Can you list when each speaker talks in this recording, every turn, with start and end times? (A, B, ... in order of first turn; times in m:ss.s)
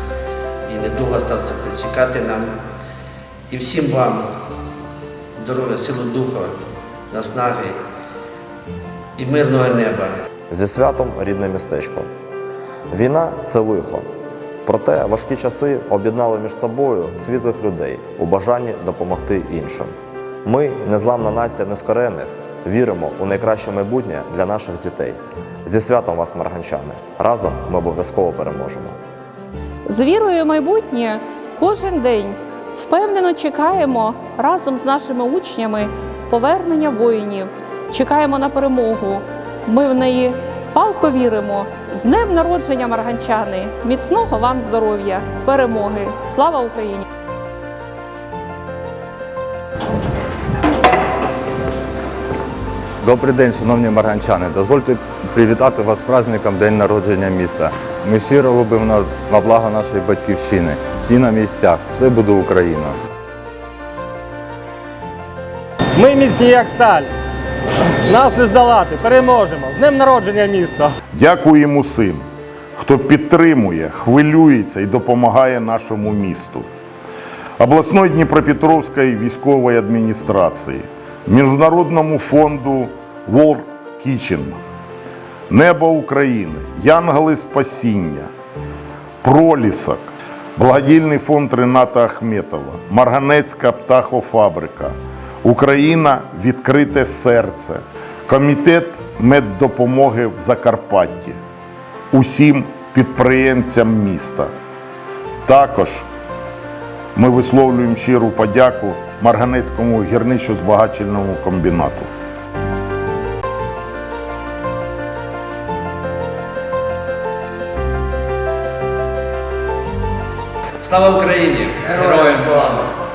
0:00.7-0:02.5 A
0:03.5-0:04.3 A
0:05.4-0:06.5 A
0:07.1-0:07.8 A
0:09.2-0:10.1 A
0:10.5-0:12.1 B
0:12.9-0:14.1 B
0:14.6-0:29.0 B
0:29.9-0:47.0 C
0:53.0-1:03.0 D
1:06.0-1:07.1 E
1:08.1-1:10.9 E
1:11.1-1:12.2 F
1:12.8-1:16.7 F
1:17.6-1:24.6 F
1:25.5-1:28.3 F
1:29.2-1:41.4 F
1:42.1-1:44.5 F
1:45.5-1:46.1 F
1:47.2-1:52.1 F
2:00.8-2:02.9 A